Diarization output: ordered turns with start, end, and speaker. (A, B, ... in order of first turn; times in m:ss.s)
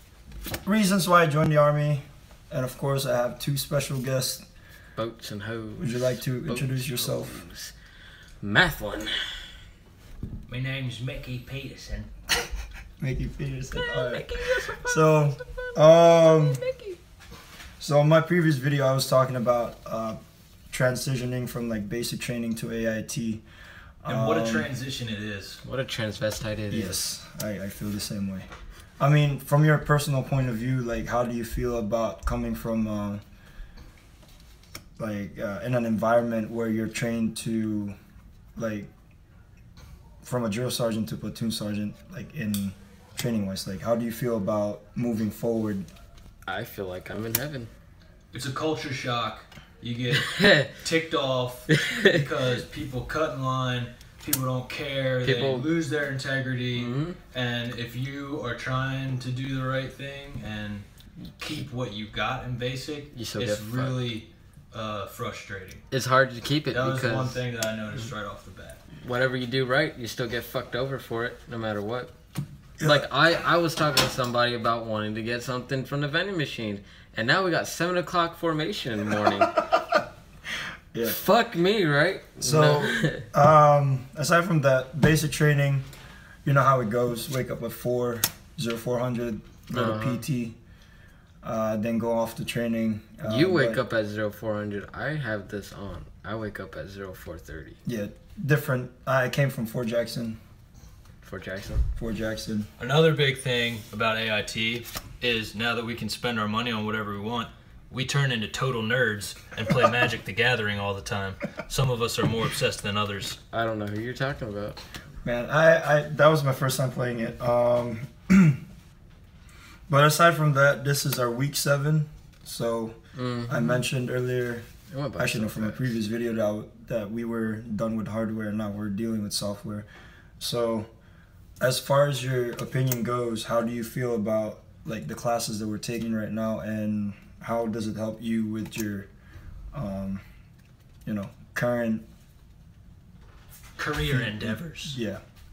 0:00.6-0:04.4 A
0:05.0-0:07.7 B
0:05.8-0:07.4 A
0:08.4-0:09.4 B
0:10.5-0:12.1 C
0:13.0-0:16.6 A
0:13.7-0:17.0 B
0:17.8-0:20.2 A
0:20.7-0:23.4 A
0:24.0-0:24.7 A
0:24.1-0:25.6 C
0:25.6-0:27.0 B
0:26.7-0:28.5 A
0:29.0-0:33.2 A
0:35.0-0:37.9 A
0:38.6-0:38.9 A
0:40.2-0:45.9 A
0:46.4-0:47.7 B
0:48.3-1:00.8 C
0:50.2-0:50.7 B
0:51.7-0:52.2 B
0:55.2-0:55.7 B
0:56.7-0:57.2 B
1:01.4-1:05.8 C
1:03.1-1:04.0 B
1:05.9-1:07.4 B
1:06.7-1:08.8 C
1:09.0-1:12.1 B
1:12.8-1:13.1 A
1:12.8-1:19.6 B
1:19.3-1:19.7 A
1:20.9-1:21.2 A
1:21.0-1:23.3 B
1:22.4-1:25.8 A
1:26.4-1:30.6 A
1:29.7-1:30.2 B
1:31.4-1:33.8 A
1:33.2-1:37.8 B
1:37.8-1:40.4 A
1:41.2-1:41.8 B
1:42.0-1:42.7 A
1:42.8-1:53.4 C
1:53.5-1:54.8 B
1:55.2-1:58.6 A
1:59.9-2:04.6 A
2:03.2-2:03.8 B
2:04.9-2:06.0 B
2:05.2-2:09.9 A
2:10.4-2:10.9 A
2:11.6-2:19.1 A
2:19.7-2:20.2 A
2:21.0-2:22.0 A
2:23.8-2:25.0 C
2:24.2-2:25.2 A